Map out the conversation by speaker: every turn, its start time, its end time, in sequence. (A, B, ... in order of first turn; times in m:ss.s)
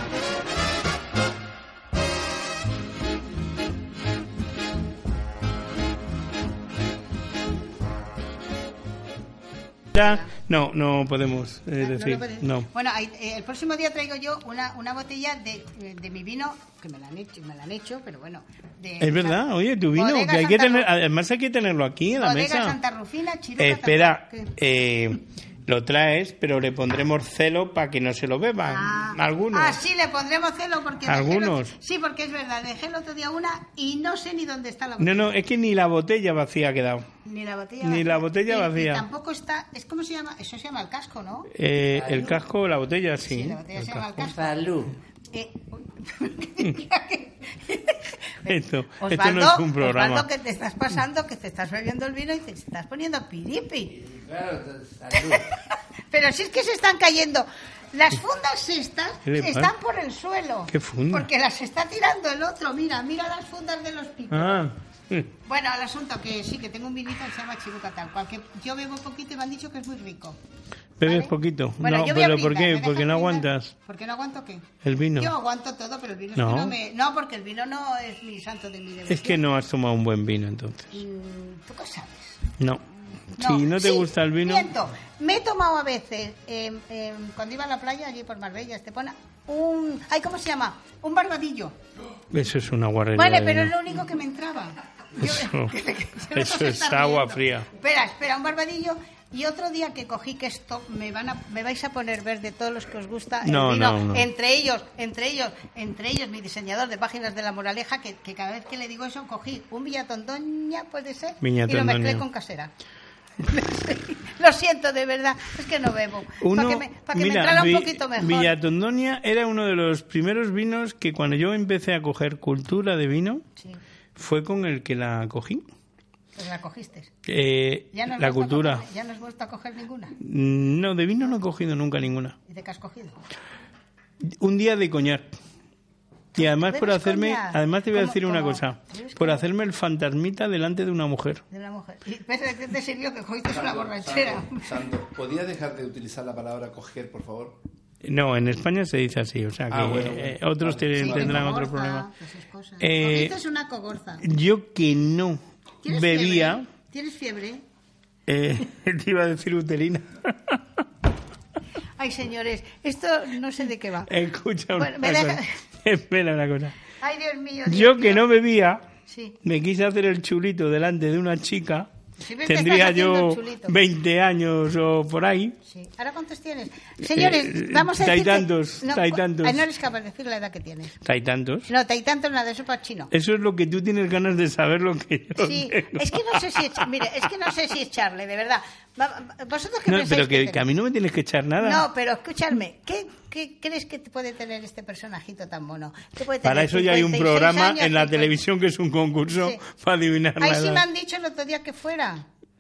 0:09.9-0:12.7 A
0:10.0-0:10.3 B
0:11.8-0:19.4 B
0:19.0-0:22.8 A
0:20.0-0:20.9 B
0:22.1-0:24.6 B
0:23.6-0:29.8 A
0:28.6-0:35.3 B
0:31.1-0:31.7 A
0:35.0-0:37.1 A
0:37.2-0:41.5 B
0:37.8-0:39.0 A
0:41.5-0:44.1 A
0:43.3-0:54.1 B
0:44.3-0:44.9 C
0:48.5-0:50.3 A
0:54.0-0:55.5 C
0:55.1-1:04.7 B
0:59.3-0:59.7 A
1:00.7-1:01.3 A
1:04.3-1:05.3 A
1:05.4-1:10.4 B
1:11.0-1:13.7 A
1:11.0-1:19.4 B
1:14.8-1:15.3 A
1:16.4-1:16.8 A
1:19.1-1:20.9 A
1:20.9-1:22.4 B
1:22.6-1:24.7 A
1:23.4-1:31.8 B
1:32.3-1:33.8 A
1:33.2-1:52.7 B
1:35.2-1:35.8 A
1:36.3-1:37.7 A
1:43.4-1:44.3 A
1:51.4-1:52.2 A
1:53.4-1:58.5 B
1:56.4-2:03.4 A
2:04.2-2:05.6 A
2:06.4-2:07.1 B
2:07.3-2:08.8 A
2:07.9-2:10.2 B
2:10.2-2:12.4 A
2:12.5-2:13.2 B
2:14.3-2:15.4 A
2:16.4-2:19.5 B
2:16.4-2:21.4 A
2:21.5-2:24.7 B
2:23.5-2:27.6 C
2:28.0-2:32.1 A
2:29.7-2:31.6 C
2:31.0-2:34.2 B
2:32.8-2:33.4 A
2:34.2-2:36.6 A
2:35.8-2:37.6 B
2:38.3-2:40.8 A
2:42.0-2:44.1 B
2:44.1-2:46.8 A
2:44.8-2:45.6 B
2:47.0-2:48.3 B
2:47.7-2:48.8 A
2:49.1-2:49.4 B
2:49.4-2:51.9 A
2:52.2-2:53.8 B
2:52.5-2:55.6 A
2:55.7-3:01.0 B
2:57.0-2:59.6 A
3:01.0-3:01.7 A
3:01.7-3:03.1 B
3:03.1-3:06.9 A
3:05.4-3:10.7 B
3:09.9-3:11.8 A
3:11.6-3:18.4 B
3:16.4-3:20.8 A
3:19.3-3:19.6 B
3:20.4-3:22.3 B